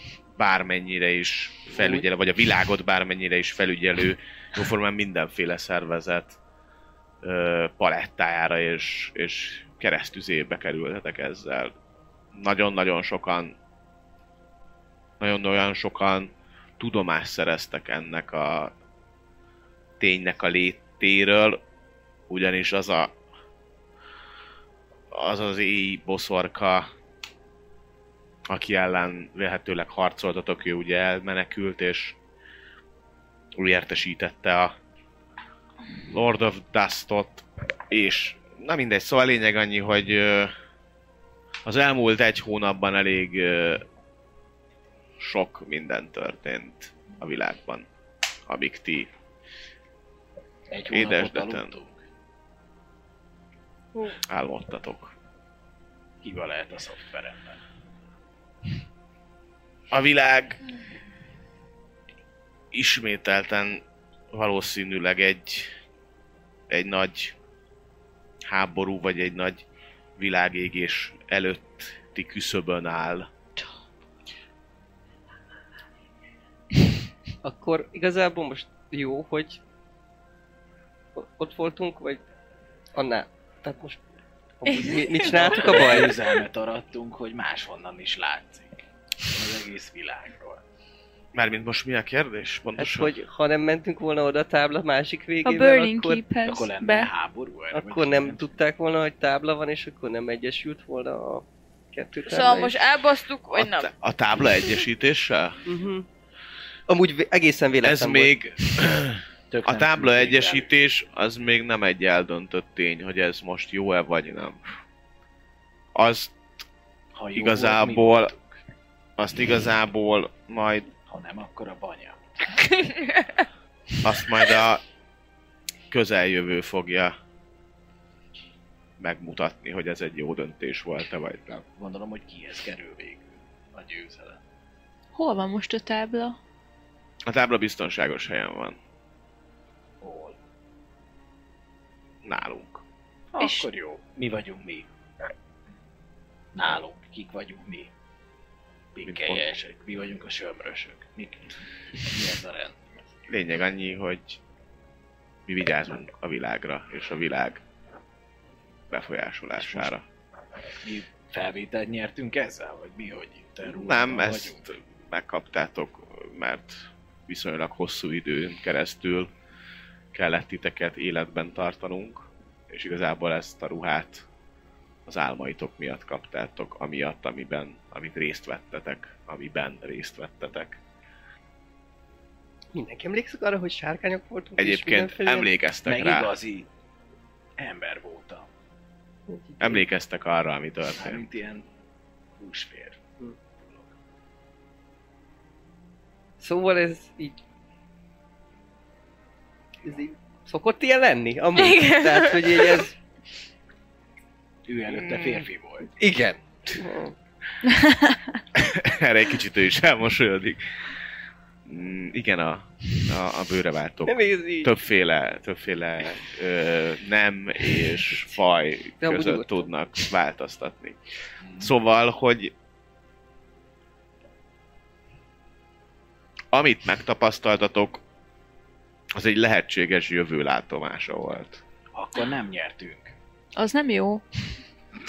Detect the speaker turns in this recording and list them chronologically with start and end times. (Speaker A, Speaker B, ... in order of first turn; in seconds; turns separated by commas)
Speaker A: 0.4-6.4, Speaker B: 1.7-2.1, Speaker A: 7.2-11.7, Speaker A: 12.3-13.5, Speaker A: 15.2-18.7, Speaker A: 20.0-21.6, Speaker A: 22.3-23.1, Speaker A: 25.1-26.9, Speaker A: 28.5-32.1, Speaker A: 33.6-34.7, Speaker A: 36.1-40.5, Speaker A: 41.6-43.8, Speaker A: 45.2-47.9, Speaker A: 48.5-49.1, Speaker C: 50.7-52.0, Speaker A: 50.9-51.7, Speaker A: 54.2-55.1, Speaker C: 56.2-57.6, Speaker A: 59.9-60.6, Speaker A: 62.7-63.8, Speaker A: 64.3-65.7, Speaker A: 66.7-67.3, Speaker A: 68.5-69.6, Speaker A: 70.2-73.3, Speaker B: 77.4-79.6, Speaker B: 81.1-82.2, Speaker B: 82.9-84.0, Speaker B: 84.6-86.2, Speaker C: 85.2-90.6, Speaker A: 91.3-93.2, Speaker B: 92.8-96.2, Speaker D: 95.4-97.1, Speaker C: 96.4-98.5, Speaker B: 97.7-102.8, Speaker E: 102.3-103.9, Speaker A: 103.6-105.6, Speaker B: 105.7-106.0, Speaker B: 106.9-108.4, Speaker A: 107.8-114.6, Speaker C: 109.5-110.7, Speaker A: 115.9-116.3, Speaker C: 117.1-118.6, Speaker A: 117.3-118.3, Speaker A: 119.2-120.9, Speaker C: 121.1-122.5, Speaker E: 122.7-123.4, Speaker A: 124.0-124.8, Speaker A: 125.9-127.2, Speaker A: 129.0-131.6, Speaker C: 131.8-134.4, Speaker D: 135.1-136.4, Speaker A: 137.2-138.8, Speaker C: 140.0-140.3, Speaker A: 142.2-142.8, Speaker C: 143.3-144.9, Speaker D: 143.4-143.7, Speaker C: 146.5-147.9, Speaker C: 148.9-153.1, Speaker A: 149.0-149.5, Speaker A: 153.3-154.4, Speaker A: 155.5-157.6, Speaker A: 158.9-160.0, Speaker C: 159.6-159.9, Speaker C: 160.8-164.6, Speaker A: 163.7-169.3, Speaker A: 170.1-174.2, Speaker A: 175.1-180.8, Speaker B: 182.7-185.5, Speaker A: 184.6-186.3, Speaker C: 185.8-186.7, Speaker C: 187.6-188.5, Speaker B: 189.3-189.9, Speaker A: 189.6-191.2, Speaker C: 190.9-191.7, Speaker C: 192.4-193.0, Speaker B: 196.4-197.4, Speaker B: 199.8-202.9, Speaker E: 201.6-202.8, Speaker C: 204.7-205.9, Speaker A: 204.9-205.4, Speaker B: 206.0-207.1, Speaker D: 207.7-208.2, Speaker A: 208.5-210.6, Speaker A: 211.7-221.0, Speaker B: 214.1-214.7, Speaker B: 218.1-218.4, Speaker B: 219.0-219.7, Speaker A: 221.6-222.5, Speaker A: 226.5-228.0, Speaker A: 229.2-231.6, Speaker C: 231.9-233.1, Speaker D: 233.6-234.2